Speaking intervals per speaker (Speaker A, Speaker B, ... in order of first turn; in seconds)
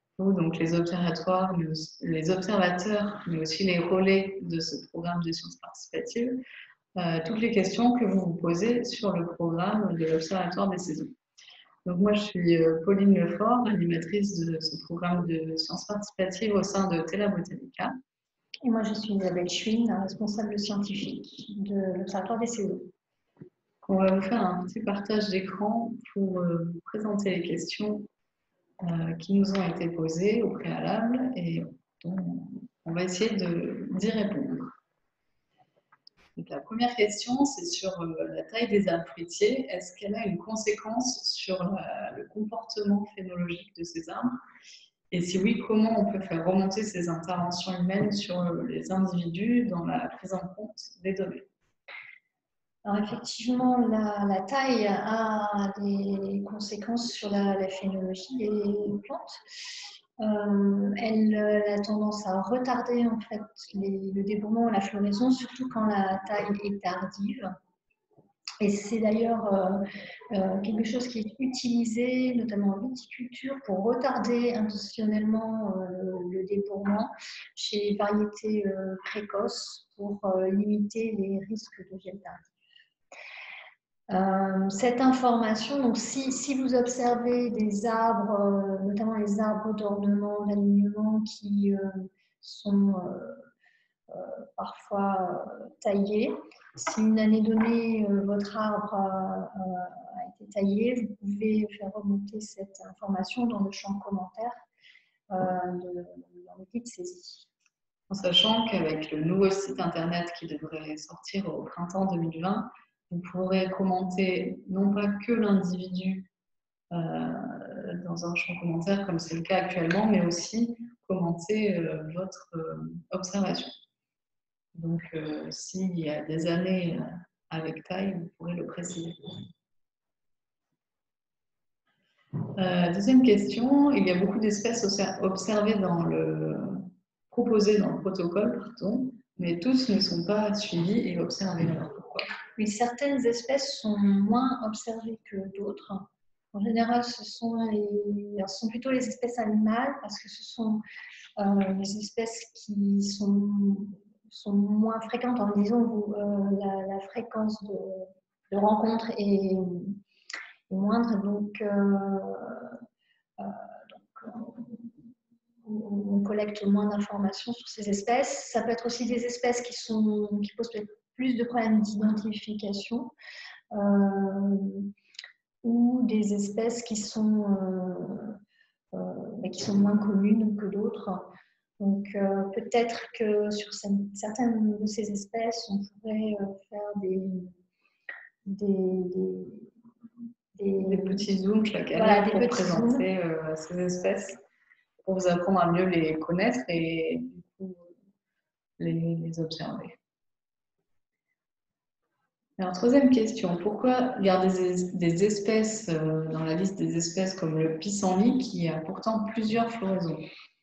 Speaker A: 0.2-6.4, 7.0-11.2, 11.8-17.9, 23.8-28.1, 28.8-34.8, 36.4-44.4, 45.1-51.5, 108.1-116.3, 116.9-123.7, 124.7-129.2, 132.6-142.3, 190.8-194.4, 195.0-197.9, 198.8-200.0, 202.6-210.2
Speaker B: 18.6-22.9, 52.8-59.4, 60.2-67.5, 68.6-82.5, 84.1-93.4, 94.1-104.6, 105.3-107.5, 142.6-150.8, 151.4-160.0, 160.7-162.8, 163.4-164.9, 165.6-173.1, 173.7-174.9, 175.6-178.4, 178.9-187.5, 188.4-189.7, 190.5-191.3, 191.9-193.1